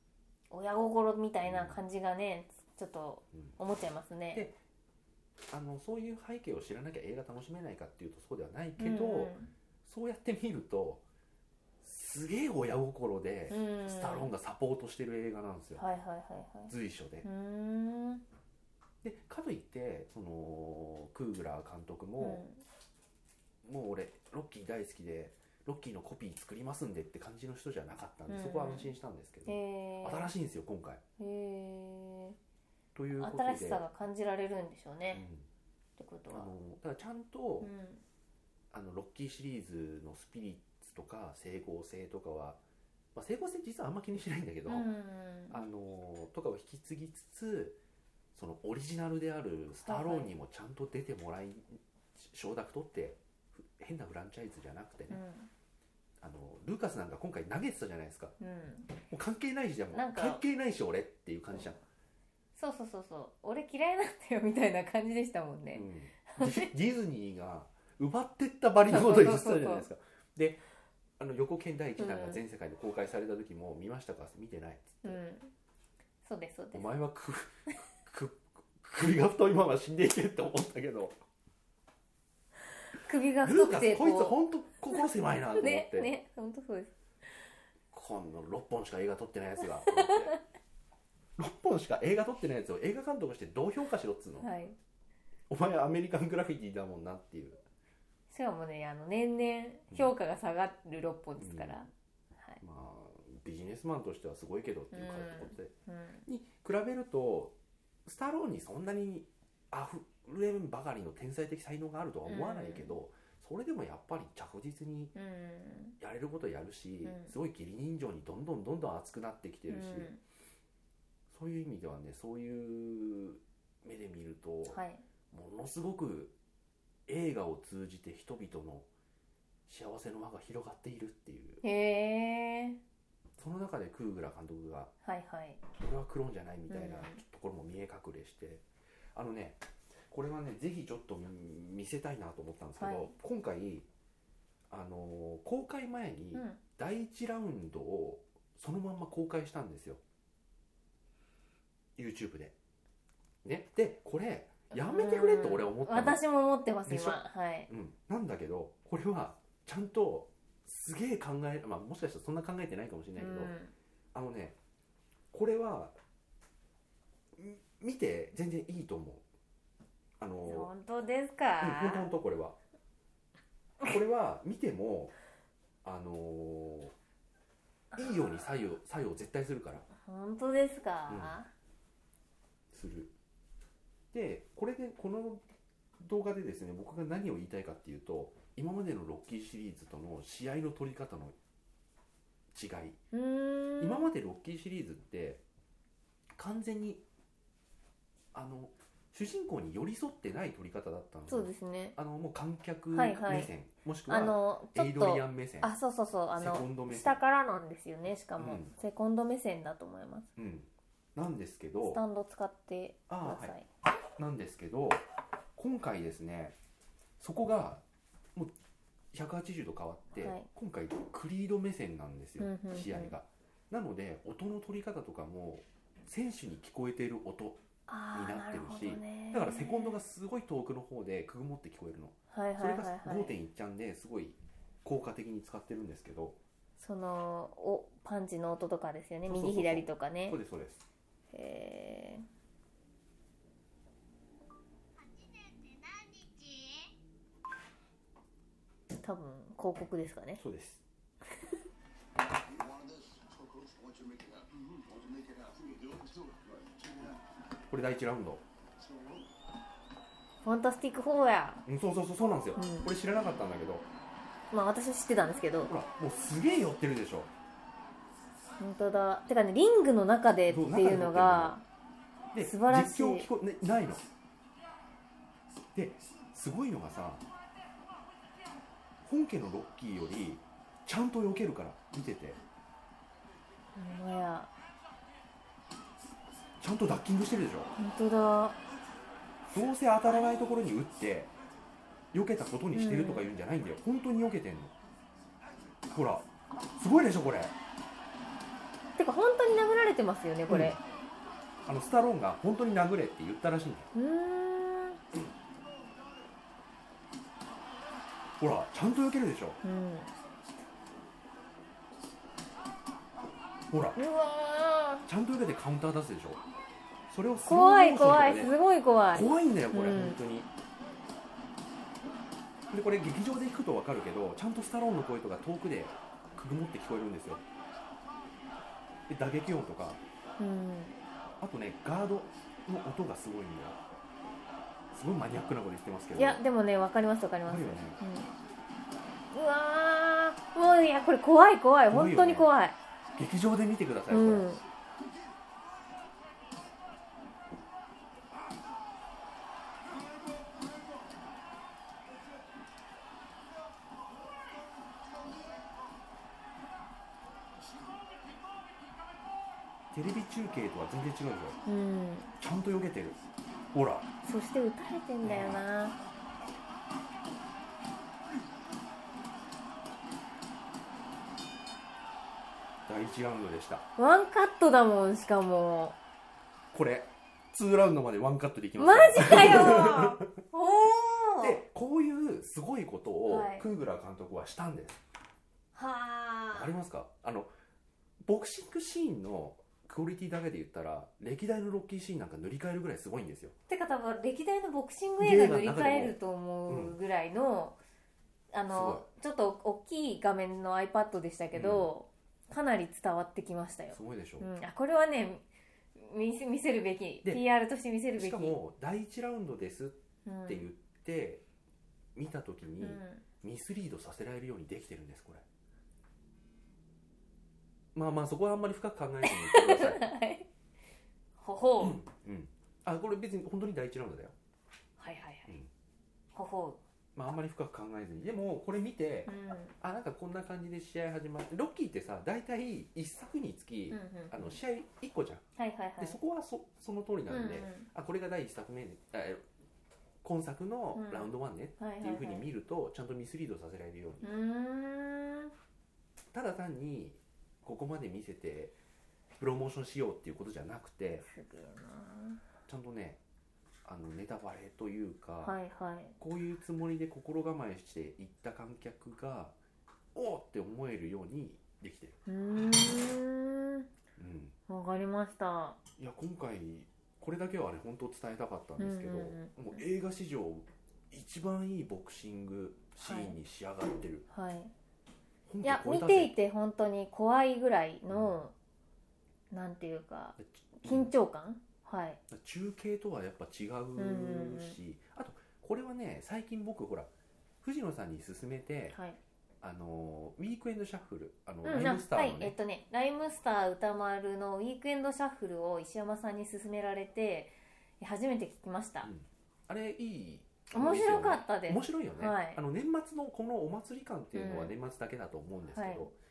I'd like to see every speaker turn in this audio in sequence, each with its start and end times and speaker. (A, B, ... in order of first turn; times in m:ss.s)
0:00.5-0:04.5 A
0:01.4-0:01.8 B
0:04.3-0:04.6 B
0:05.5-0:11.0 B
0:08.8-0:09.5 A
0:11.8-0:15.8 B
0:13.5-0:14.3 A
0:15.8-0:16.7 A
0:16.7-0:17.3 B
0:17.2-0:18.2 A
0:19.0-0:22.4 B
0:22.2-0:22.6 A
0:23.6-0:31.0 B
0:28.3-0:28.9 A
0:29.5-0:30.3 A
0:31.2-0:32.4 A
0:33.0-0:33.8 B
0:33.2-0:35.2 A
0:35.1-0:35.5 B
0:36.0-0:36.5 A
0:36.3-0:37.7 B
0:37.6-0:38.0 A
0:38.7-0:42.6 B
0:43.2-0:44.9 B
0:44.7-0:45.7 A
0:45.5-0:47.8 B
0:48.3-0:55.2 B
0:49.8-0:50.3 A
0:55.1-0:55.5 A
0:56.2-0:58.4 B
0:58.4-0:59.0 A
0:59.0-1:01.8 B
0:59.9-1:00.4 A
1:02.6-1:06.7 A
1:05.7-1:10.6 B
1:08.9-1:09.9 A
1:11.2-1:15.2 B
1:12.0-1:12.4 A
1:15.0-1:15.5 A
1:16.2-1:16.9 A
1:16.7-1:21.2 B
1:22.9-1:24.4 A
1:23.4-1:26.1 B
1:25.5-1:26.9 A
1:27.9-1:30.4 B
1:29.8-1:30.4 A
1:31.4-1:34.5 B
1:34.4-1:34.8 A
1:35.5-1:37.6 B
1:38.3-1:42.6 A
1:41.4-1:41.8 B
1:42.6-1:45.7 B
1:44.9-1:46.2 A
1:46.3-1:55.2 B
1:52.3-1:53.0 A
1:55.2-1:56.0 A
1:56.0-2:00.1 B
1:57.0-1:57.3 A
1:59.7-2:00.2 A
2:01.3-2:04.8 B
2:04.7-2:05.0 A
2:05.3-2:06.4 B
2:07.1-2:08.9 B
2:09.7-2:11.6 B
2:11.6-2:12.8 A
2:13.4-2:14.9 B
2:15.0-2:15.6 A
2:15.7-2:23.9 B
2:16.7-2:17.2 A
2:22.8-2:23.1 A
2:24.7-2:30.0 B
2:26.3-2:26.6 A
2:32.0-2:32.5 B
2:33.4-2:36.2 B
2:34.7-2:37.7 A
2:36.9-2:43.6 B
2:43.2-2:43.7 A
2:44.1-2:44.6 B
2:45.3-2:46.0 B
2:47.4-2:49.2 B
2:50.2-2:50.7 B
2:50.5-2:52.1 A
2:51.6-2:52.6 B
2:53.8-2:55.1 B
2:55.8-2:56.9 B
2:57.9-2:58.4 A
2:58.0-2:59.9 B
2:59.9-3:01.5 A
3:01.1-3:01.4 B
3:02.7-3:03.1 B
3:04.1-3:05.4 B
3:06.0-3:11.4 B
3:12.5-3:13.0 B
3:13.1-3:14.1 A
3:13.8-3:15.4 B
3:16.4-3:17.0 B
3:18.3-3:25.7 B
3:21.3-3:22.0 A
3:22.9-3:23.5 A
3:24.1-3:30.3 A
3:26.3-3:27.2 B
3:28.4-3:28.7 B
3:30.4-3:32.0 B
3:31.8-3:33.7 A
3:33.1-3:33.6 B
3:34.2-3:35.0 B
3:35.6-3:36.6 B
3:37.2-3:37.8 B
3:39.1-3:47.6 B
3:40.2-3:40.5 A
3:42.4-3:43.2 A
3:47.9-3:50.0 A
3:48.1-3:56.4 B
3:52.3-3:53.4 A
3:56.8-4:00.4 A
3:59.3-4:00.8 B
4:01.3-4:02.2 A
4:08.9-4:10.4 A
4:10.4-4:10.8 B
4:12.5-4:17.2 C
4:17.7-4:18.4 B
4:18.8-4:19.2 C
4:20.4-4:21.6 A
4:21.7-4:23.9 B
4:22.6-4:22.9 A
4:24.5-4:25.7 A
4:25.6-4:27.3 B
4:28.6-4:31.6 A
4:30.5-4:31.6 B
4:32.3-4:34.1 B
4:32.4-4:33.3 A
4:35.7-4:37.2 B
4:39.1-4:42.4 B
4:43.8-4:44.5 A
4:46.6-4:47.8 B
4:47.8-4:48.6 A
4:49.5-4:51.3 B
4:50.0-4:50.7 A
4:52.1-4:54.7 B
4:52.7-4:53.3 A
4:55.9-4:57.6 B
4:59.0-5:00.8 A
5:00.5-5:00.8 B
5:01.7-5:03.9 B
5:03.9-5:05.0 A
5:08.4-5:09.6 B
5:09.6-5:10.2 A
5:13.7-5:14.0 B
5:14.0-5:15.1 A
5:15.1-5:16.4 B
5:17.1-5:18.6 B
5:17.5-5:20.2 A
5:19.1-5:20.5 B
5:22.7-5:27.4 B
5:29.1-5:30.0 B
5:30.4-5:31.0 A
5:31.4-5:33.8 B
5:34.9-5:36.4 B
5:36.2-5:38.3 A
5:37.5-5:38.0 B
5:39.3-5:42.8 A
5:41.9-5:42.5 B
5:43.2-5:44.5 B
5:44.1-5:44.6 A
5:59.9-6:01.6 B
6:01.7-6:02.3 A
6:02.4-6:03.2 B
6:03.7-6:04.1 B
6:04.2-6:06.0 A
6:05.2-6:05.6 B
6:12.9-6:13.9 B
6:14.0-6:16.0 A
6:16.7-6:20.3 B
6:18.8-6:21.6 A
6:21.4-6:25.0 B
6:23.3-6:23.7 A
6:25.7-6:26.8 A
6:26.5-6:27.5 B
6:28.2-6:33.6 B
6:33.7-6:37.8 A
6:35.2-6:37.0 B
6:38.5-6:45.4 A
6:38.7-6:39.1 B
6:41.5-6:41.9 B
6:43.9-6:44.5 B
6:46.0-6:48.6 A
6:48.2-6:51.4 B
6:50.2-6:50.7 A
6:52.2-6:55.4 B
6:52.8-6:53.2 A
6:58.0-7:00.1 B
6:59.2-7:00.5 A
7:01.4-7:02.0 A
7:01.8-7:04.4 B
7:05.0-7:05.6 A
7:06.3-7:06.8 A
7:07.2-7:15.4 B
7:09.3-7:09.7 A
7:13.9-7:14.6 A
7:15.6-7:16.2 A
7:16.0-7:19.4 B
7:17.3-7:17.9 A
7:20.2-7:24.3 B
7:21.0-7:22.5 A
7:24.2-7:25.5 A
7:26.3-7:28.8 B
7:29.4-7:31.3 B
7:31.2-7:32.4 A
7:32.7-7:33.2 B
7:33.8-7:35.6 B
7:35.4-7:36.2 A
7:36.2-7:39.6 B
7:40.2-7:42.2 B
7:42.3-7:43.9 A
7:44.2-7:44.6 B
7:44.7-7:45.8 A
7:46.0-7:54.3 B
7:48.8-7:49.8 A
7:53.0-7:53.4 A
7:54.3-7:54.7 A
7:55.5-7:56.4 B
7:55.6-7:58.5 A
7:58.1-7:58.4 B
7:59.5-8:02.2 A
8:00.4-8:01.1 B
8:02.3-8:07.1 B
8:04.0-8:04.8 A
8:07.6-8:09.0 B
8:08.9-8:09.2 A
8:09.6-8:12.6 B
8:11.6-8:19.1 A
8:19.0-8:26.2 B
8:20.7-8:22.6 A
8:24.3-8:24.8 A
8:25.7-8:26.1 A